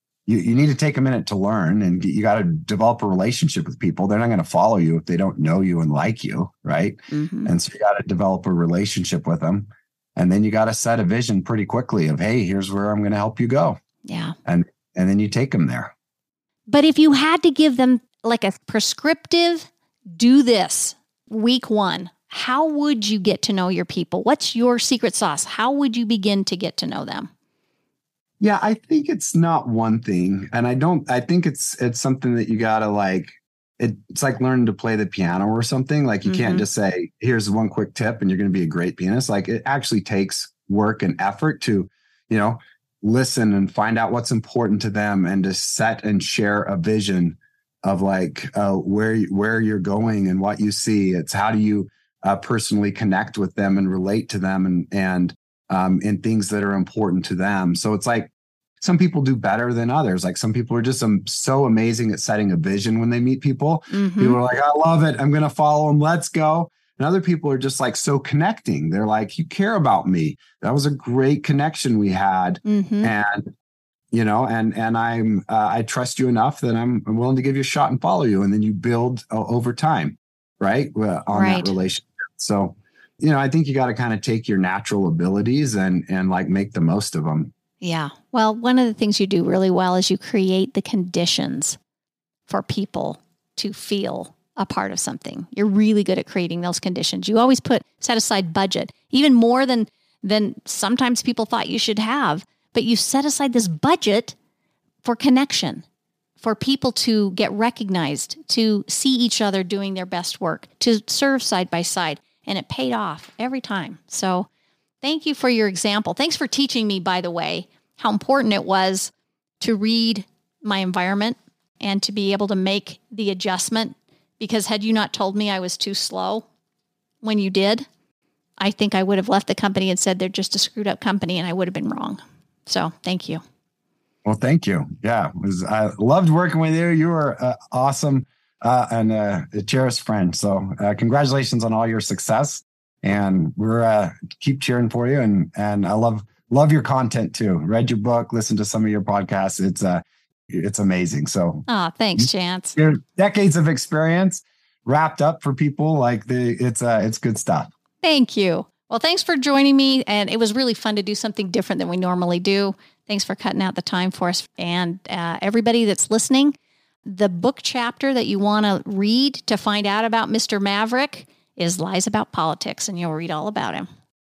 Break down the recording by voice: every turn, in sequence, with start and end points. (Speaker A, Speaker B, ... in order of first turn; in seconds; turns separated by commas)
Speaker A: 0.3-13.8, Speaker B: 7.1-7.5, Speaker B: 14.1-14.4, Speaker A: 14.4-15.9, Speaker B: 16.7-27.3, Speaker A: 28.4-73.5, Speaker B: 36.2-36.6, Speaker B: 63.9-64.4, Speaker B: 72.7-73.1, Speaker A: 74.1-87.5, Speaker B: 81.3-81.8, Speaker B: 87.8-91.8, Speaker B: 92.5-104.3, Speaker B: 105.0-105.8, Speaker B: 106.4-114.5, Speaker B: 115.0-126.5, Speaker B: 127.2-127.9, Speaker B: 128.6-133.4, Speaker A: 134.2-151.7, Speaker B: 151.7-152.8, Speaker A: 152.2-157.7, Speaker B: 158.0-166.6, Speaker B: 167.1-173.9